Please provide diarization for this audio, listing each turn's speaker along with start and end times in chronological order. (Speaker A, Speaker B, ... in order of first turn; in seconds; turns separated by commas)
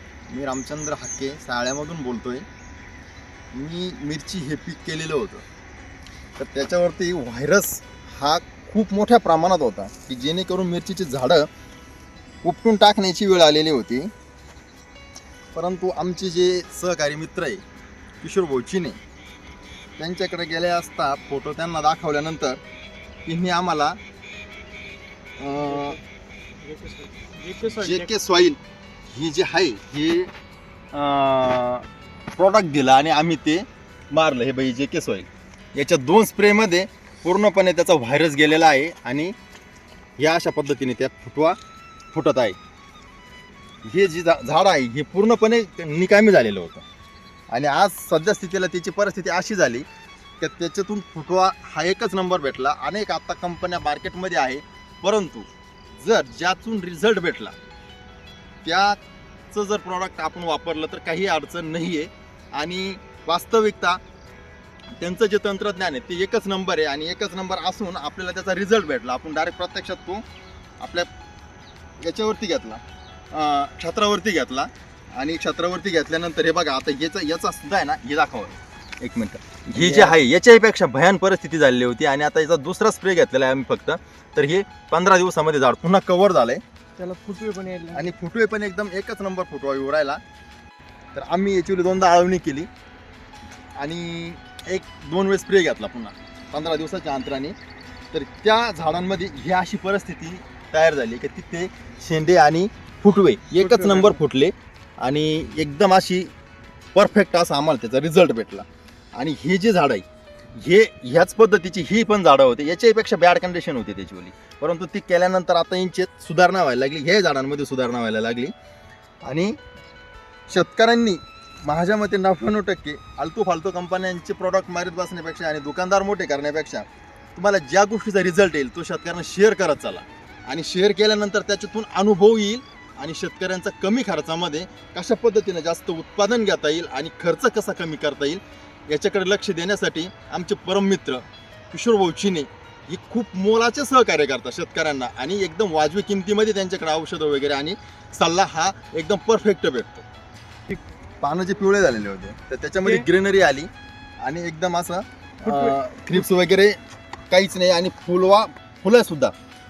Speaker A: 0.3-2.5, Speaker A: 3.5-5.4, Speaker A: 6.4-11.5, Speaker A: 12.4-14.1, Speaker A: 15.5-17.6, Speaker A: 18.2-19.0, Speaker A: 20.0-22.6, Speaker A: 23.2-24.0, Speaker A: 25.4-26.0, Speaker B: 25.6-26.0, Speaker B: 26.6-28.1, Speaker A: 27.6-28.6, Speaker A: 29.1-30.3, Speaker A: 30.9-39.3, Speaker A: 40.2-41.6, Speaker A: 42.1-42.6, Speaker A: 43.8-46.9, Speaker A: 47.5-49.9, Speaker A: 50.4-57.5, Speaker A: 58.6-64.0, Speaker A: 65.0-70.2, Speaker A: 70.8-71.1, Speaker A: 72.0-86.6, Speaker B: 79.8-80.2, Speaker B: 87.0-88.1, Speaker A: 87.9-90.2, Speaker A: 91.1-92.7, Speaker A: 93.8-97.5, Speaker A: 98.1-106.3, Speaker B: 103.6-104.2, Speaker A: 106.9-118.5, Speaker A: 119.2-119.6, Speaker A: 120.5-150.0, Speaker A: 151.2-153.7, Speaker A: 154.2-156.8, Speaker B: 155.4-156.2, Speaker A: 157.3-159.3